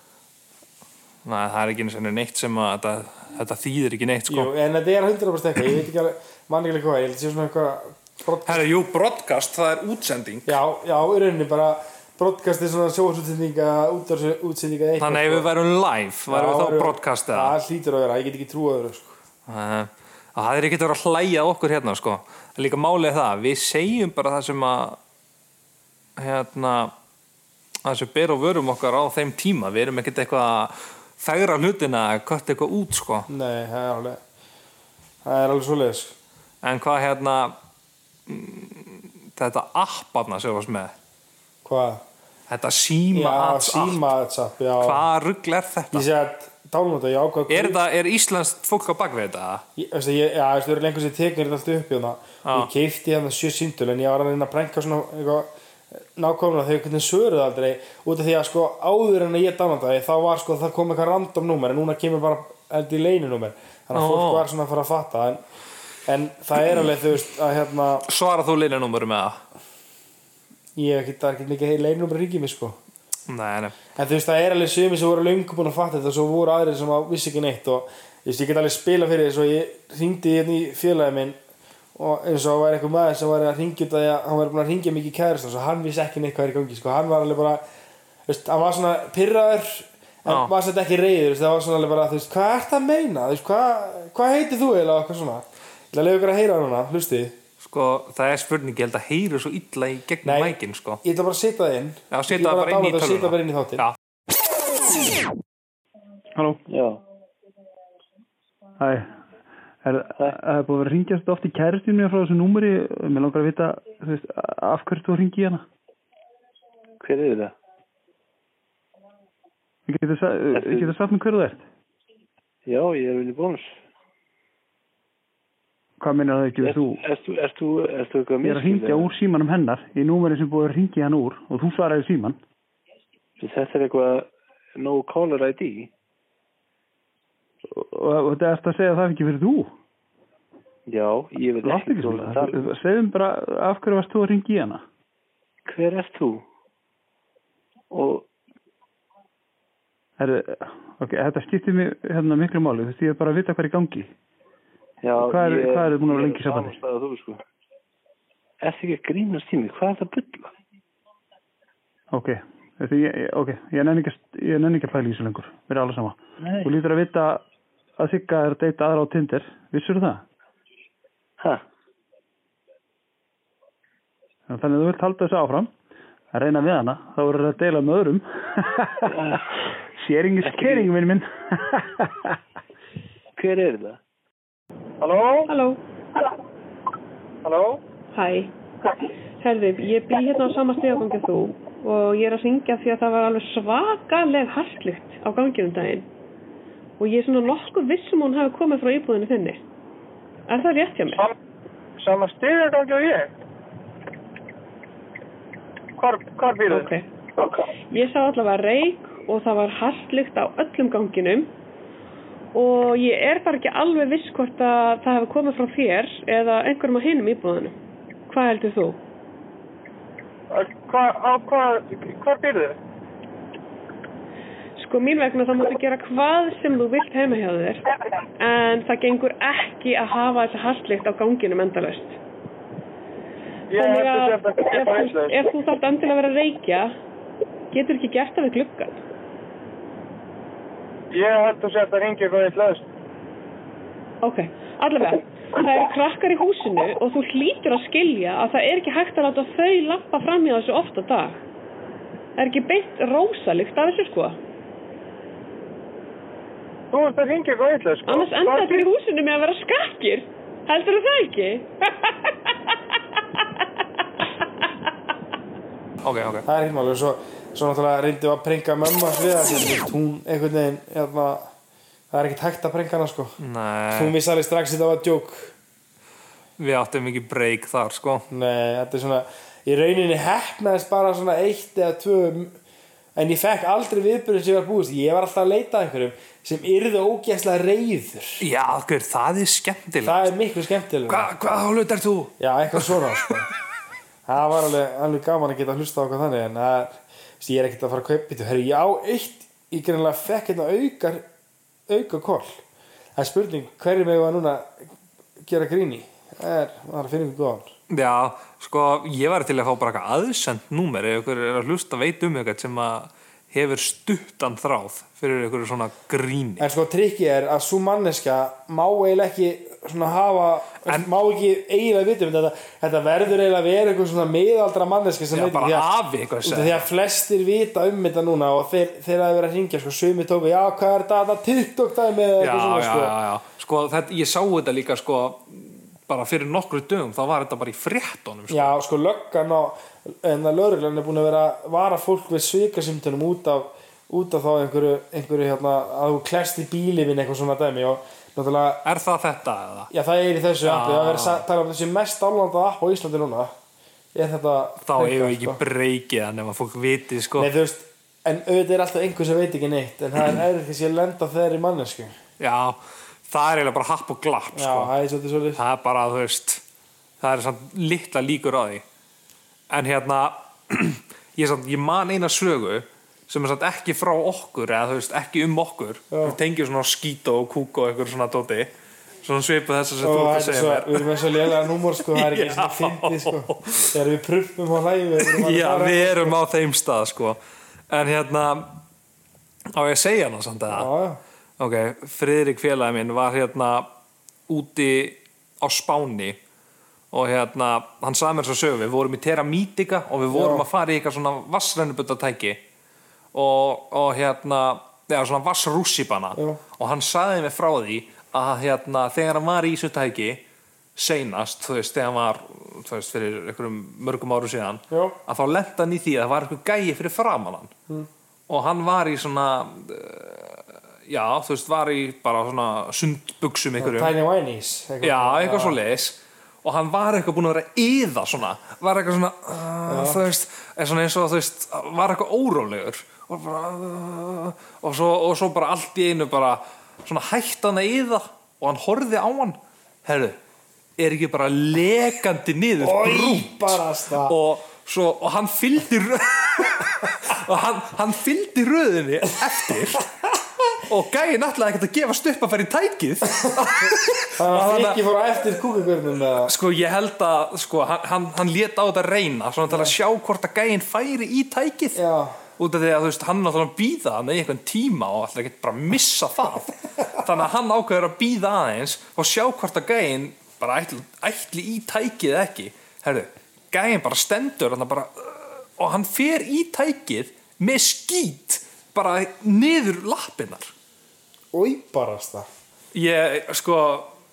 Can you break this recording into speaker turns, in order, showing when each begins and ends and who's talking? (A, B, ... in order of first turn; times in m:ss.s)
0:01.2-0:04.5 A
0:04.3-0:08.6 B
0:08.4-0:10.6 A
0:10.4-0:15.5 B
0:15.0-0:17.6 A
0:16.3-0:19.2 B
0:19.5-0:25.0 A
0:26.2-0:26.9 A
0:27.8-0:33.3 A
0:33.3-0:34.2 B
0:35.2-0:36.1 B
0:36.6-0:37.6 A
0:38.3-0:40.9 A
0:41.6-0:42.0 B
0:42.5-0:44.1 A
0:43.1-0:45.0 B
0:44.8-0:46.1 A
0:45.9-0:47.8 B
0:47.5-0:49.6 A
0:49.8-1:05.4 B
0:52.4-0:52.7 A
1:03.9-1:04.5 A
1:06.1-1:08.1 B
1:08.1-1:09.4 A
1:10.8-1:12.8 B
1:13.3-1:13.7 A
1:14.0-1:21.4 B
1:22.0-1:27.6 B
1:28.3-1:37.4 B
1:30.3-1:30.5 A
1:37.6-1:41.0 A
1:40.2-1:43.9 B
1:42.1-1:44.0 A
1:46.4-1:46.6 C
1:46.7-1:47.0 D
1:48.8-1:49.1 C
1:49.8-1:55.6 C
1:57.0-1:57.5 D
1:59.9-2:01.6 C
2:00.5-2:01.0 D
2:02.6-2:03.8 D
2:06.0-2:07.0 C
2:06.6-2:09.1 D
2:08.4-2:12.4 C
2:13.4-2:15.9 D
2:17.7-2:19.7 C
2:20.9-2:22.7 D
2:21.6-2:24.8 C
2:25.6-2:26.4 D
2:27.9-2:28.3 D
2:30.2-2:34.1 C
2:35.0-2:37.4 D
2:35.2-2:36.8 C
2:38.6-2:40.5 D
2:42.1-2:47.4 C
2:46.4-2:46.7 D
2:48.0-2:50.2 C
2:54.5-2:55.7 C
2:56.3-2:59.1 C
2:59.1-2:59.4 D
3:00.0-3:02.3 C
3:00.4-3:00.9 D
3:03.4-3:04.0 D
3:05.0-3:05.5 E
3:05.5-3:05.8 F
3:07.4-3:07.8 E
3:08.1-3:08.5 F
3:09.4-3:16.1 F
3:17.0-3:19.6 F
3:20.5-3:21.3 F
3:22.0-3:23.3 E
3:26.0-3:26.9 E
3:26.7-3:27.1 F
3:27.9-3:31.5 F
3:32.5-3:37.8 F
3:38.3-3:39.0 F
3:40.5-3:42.8 E
3:44.8-3:47.8 F
3:48.4-3:52.2 F
3:53.7-3:55.4 E
3:53.7-3:56.9 F
3:57.7-3:59.0 F
4:01.1-4:02.8 E
4:04.2-4:11.4 F
4:12.4-4:14.4 F
4:16.9-4:18.8 E
4:18.1-4:22.3 F
4:26.0-4:26.5 A
4:26.5-4:31.5 B
4:32.1-4:33.4 B
4:33.4-4:34.1 A
4:33.9-4:35.5 B
4:36.6-4:38.2 A
4:38.3-4:42.6 B
4:43.2-4:48.4 B
4:48.4-4:50.3 A
4:50.0-4:51.3 B
4:51.1-4:53.0 A
4:52.4-4:53.5 B
4:54.3-5:01.2 B
5:01.9-5:02.6 B
5:03.2-5:04.7 B
5:05.4-5:07.7 B
5:07.9-5:16.7 A
5:16.6-5:25.9 B
5:25.3-5:26.8 A
5:26.4-5:33.2 B
5:32.4-5:38.8 A
5:38.5-5:48.8 B
5:48.8-5:49.9 A
5:49.9-5:53.5 B
5:50.6-5:51.4 A
5:54.1-5:55.6 B
5:54.8-5:57.5 A
5:57.4-6:02.1 B
6:02.4-6:04.9 A
6:04.5-6:05.6 B
6:05.6-6:06.6 A
6:07.2-6:08.8 A
6:09.7-6:18.7 A
6:16.1-6:16.4 B
6:19.2-6:23.9 A
6:20.0-6:26.4 B
6:25.2-6:27.4 A
6:27.9-6:28.8 A
6:29.7-6:30.9 A
6:30.7-6:31.2 B
6:31.6-6:33.9 A
6:34.5-6:36.4 A
6:37.1-6:42.6 A
6:40.3-6:40.6 B
6:43.3-6:50.4 A
6:46.4-6:46.6 B
6:51.0-6:57.7 A
6:54.9-6:55.2 B
6:58.5-7:04.1 A
7:03.8-7:05.8 B
7:05.0-7:20.4 A
7:09.9-7:10.2 B
7:21.0-7:30.1 A
7:22.8-7:24.4 B
7:30.8-7:35.0 A
7:33.4-7:36.5 B
7:36.4-7:42.0 A
7:41.9-7:42.4 B
7:42.6-8:00.7 A
8:01.5-8:02.5 B
8:02.9-8:04.1 A